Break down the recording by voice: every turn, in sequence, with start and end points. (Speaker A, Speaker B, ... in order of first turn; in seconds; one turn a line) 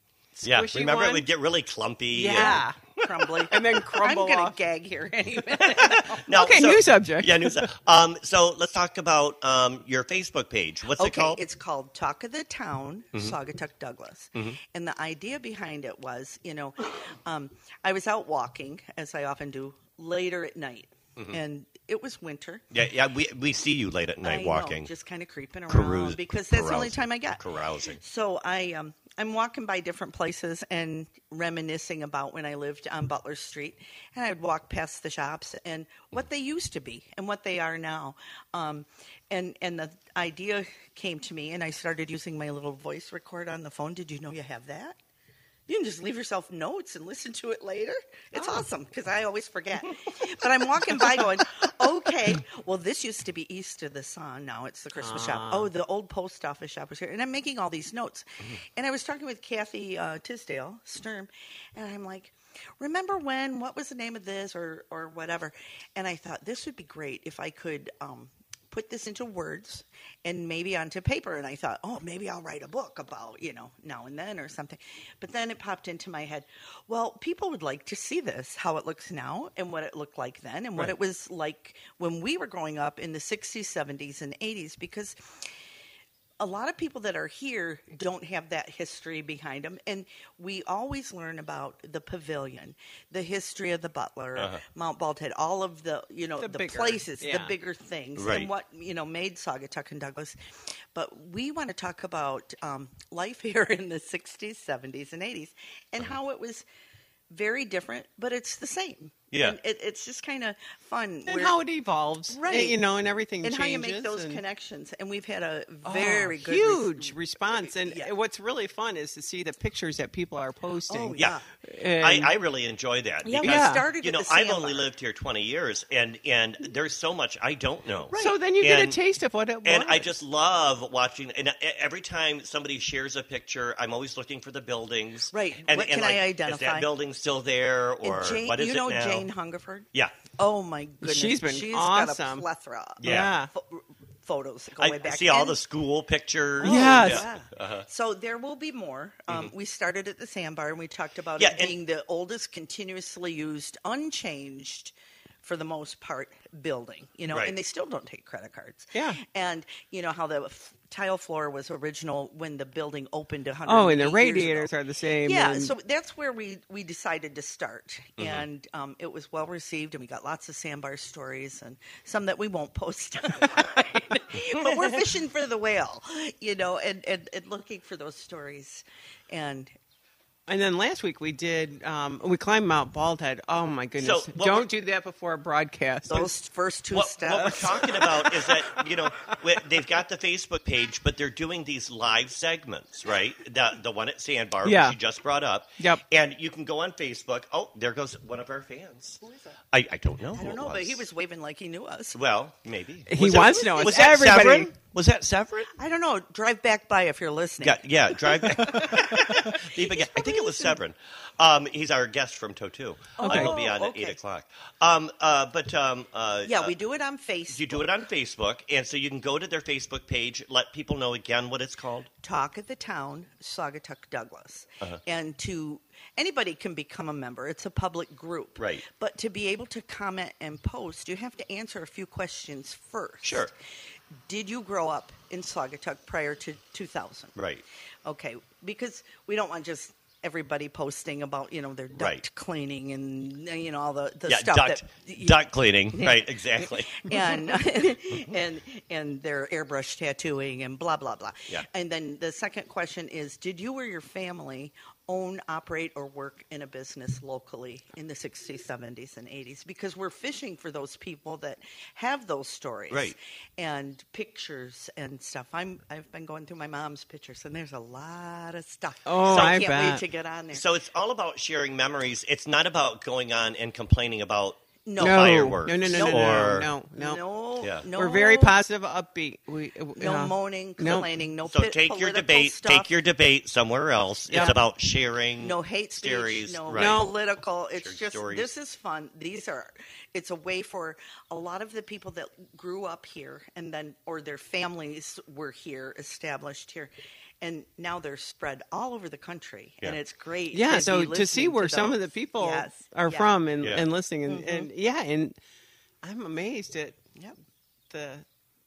Speaker A: 0.3-1.3
Speaker B: 0.4-2.8
Speaker A: 2.1-2.8
Speaker C: 2.4-6.2
Speaker A: 3.5-4.6
Speaker B: 5.8-11.4
Speaker A: 6.2-7.6
Speaker C: 11.0-22.6
Speaker B: 22.7-24.9
Speaker C: 24.2-27.4
Speaker B: 25.7-28.0
Speaker C: 28.0-45.0
Speaker C: 45.7-85.5
Speaker A: 55.0-55.7
Speaker C: 86.4-100.4
Speaker B: 94.4-94.6
Speaker A: 96.3-97.5
Speaker B: 98.2-98.5
Speaker C: 100.9-106.6
Speaker C: 107.3-111.6
Speaker B: 109.3-109.6
Speaker A: 111.2-114.4
Speaker C: 112.3-112.8
Speaker C: 113.4-118.1
Speaker A: 115.8-122.3
Speaker C: 120.9-121.4
Speaker B: 122.0-129.0
Speaker C: 123.2-124.9
Speaker A: 123.4-123.8
Speaker C: 128.1-128.4
Speaker A: 128.1-130.1
Speaker B: 129.6-139.3
Speaker C: 135.3-136.9
Speaker C: 138.0-139.8
Speaker C: 140.4-145.6
Speaker A: 141.0-142.5
Speaker B: 143.0-143.3
Speaker A: 143.0-143.5
Speaker B: 144.8-147.8
Speaker A: 146.6-147.2
Speaker C: 146.6-164.7
Speaker B: 151.4-151.7
Speaker A: 158.9-159.2
Speaker A: 163.7-165.7
Speaker C: 165.2-179.7
Speaker B: 168.2-168.4
Speaker A: 180.5-186.3
Speaker B: 184.0-184.7
Speaker C: 186.1-187.8
Speaker B: 186.9-199.2
Speaker A: 194.6-195.0
Speaker C: 199.2-199.5
Speaker B: 199.7-201.1
Speaker C: 200.3-202.2
Speaker B: 202.1-205.7
Speaker A: 203.1-204.7
Speaker C: 203.2-204.0
Speaker C: 205.8-210.7
Speaker B: 207.6-216.8
Speaker C: 213.2-214.2
Speaker A: 213.2-213.6
Speaker C: 216.4-217.9
Speaker B: 217.5-222.1
Speaker C: 222.2-233.5
Speaker B: 228.6-228.8
Speaker B: 233.2-233.5
Speaker C: 234.2-237.3
Speaker B: 237.3-237.6
Speaker C: 238.0-245.4
Speaker B: 241.9-242.2
Speaker B: 244.3-247.5
Speaker C: 245.9-270.6
Speaker B: 262.9-263.1
Speaker A: 269.0-270.0
Speaker B: 269.3-269.6
Speaker B: 270.5-276.7
Speaker C: 274.9-278.5
Speaker A: 275.0-277.2
Speaker A: 277.9-281.1
Speaker C: 280.0-282.9
Speaker B: 281.4-287.1
Speaker A: 284.3-284.6
Speaker C: 285.4-303.4
Speaker A: 286.7-287.1
Speaker B: 287.8-288.5
Speaker A: 300.5-305.4
Speaker B: 303.6-303.9
Speaker C: 304.3-304.7
Speaker A: 306.0-307.0
Speaker A: 307.9-308.2